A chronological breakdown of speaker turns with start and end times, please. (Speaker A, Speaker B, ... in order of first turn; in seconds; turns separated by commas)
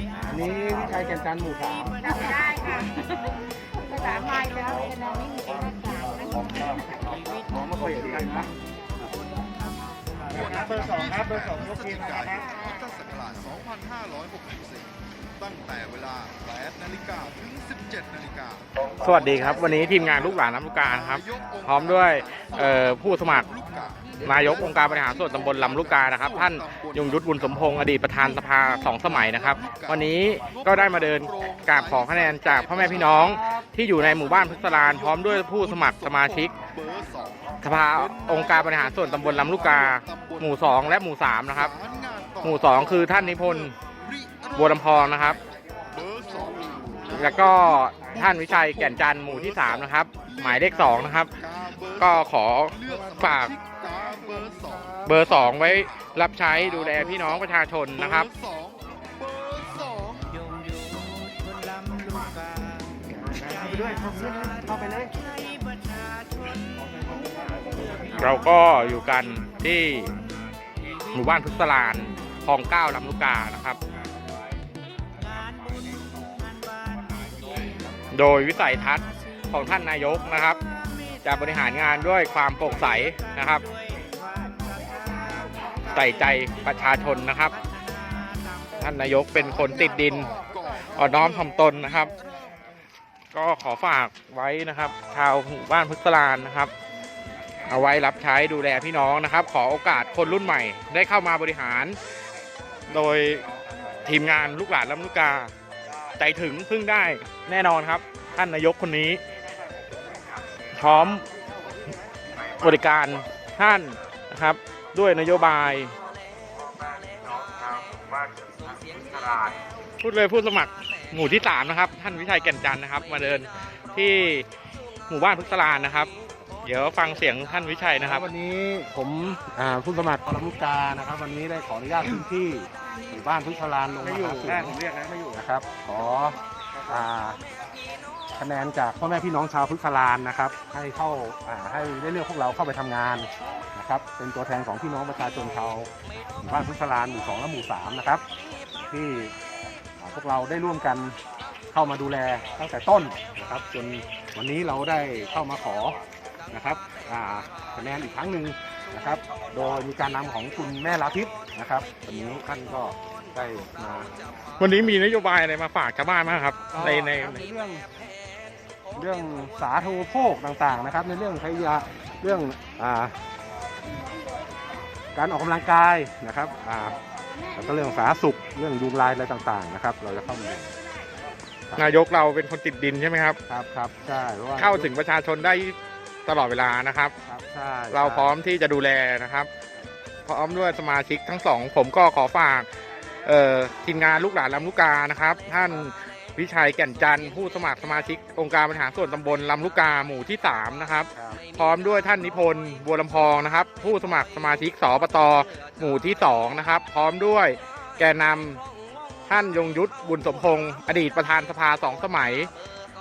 Speaker A: 0.2-2.1, Speaker B: 4.0-6.4, Speaker A: 7.5-8.5, Speaker C: 7.8-8.4, Speaker D: 10.3-27.7, Speaker A: 10.3-11.3, Speaker C: 10.6-12.4, Speaker C: 19.0-23.5, Speaker C: 24.2-36.5, Speaker D: 29.0-33.3, Speaker D: 34.0-45.4, Speaker C: 37.6-41.7, Speaker C: 42.4-43.8, Speaker C: 44.5-45.4, Speaker D: 45.9-60.5, Speaker C: 47.1-51.3, Speaker C: 52.0-53.5, Speaker C: 55.0-58.3, Speaker A: 63.3-65.1, Speaker C: 68.1-70.1, Speaker C: 71.1-73.8, Speaker C: 78.1-80.6, Speaker C: 81.2-83.6, Speaker C: 85.9-87.6, Speaker C: 88.8-90.3, Speaker D: 89.4-92.4, Speaker C: 90.9-92.1, Speaker C: 93.3-96.7, Speaker C: 97.7-102.0, Speaker C: 102.9-103.5, Speaker C: 104.0-105.5, Speaker C: 106.2-109.2, Speaker C: 110.7-111.2, Speaker C: 112.6-115.9, Speaker C: 117.3-118.3, Speaker C: 118.8-124.5, Speaker C: 125.1-126.1, Speaker C: 126.6-128.3, Speaker A: 128.0-136.4, Speaker C: 134.0-135.1, Speaker A: 136.9-137.4, Speaker A: 138.4-145.9, Speaker A: 146.4-148.2, Speaker A: 148.9-149.3, Speaker A: 150.0-151.2, Speaker A: 151.7-156.0, Speaker A: 156.5-164.1, Speaker C: 164.6-167.4, Speaker A: 166.7-167.8, Speaker A: 168.9-173.2, Speaker A: 175.1-177.0, Speaker A: 177.5-180.7, Speaker C: 181.8-183.4, Speaker A: 183.5-184.9, Speaker C: 184.6-187.1, Speaker A: 187.3-188.3, Speaker C: 187.9-189.5, Speaker C: 190.3-192.7, Speaker C: 193.2-208.6, Speaker A: 201.1-201.4, Speaker C: 209.3-212.5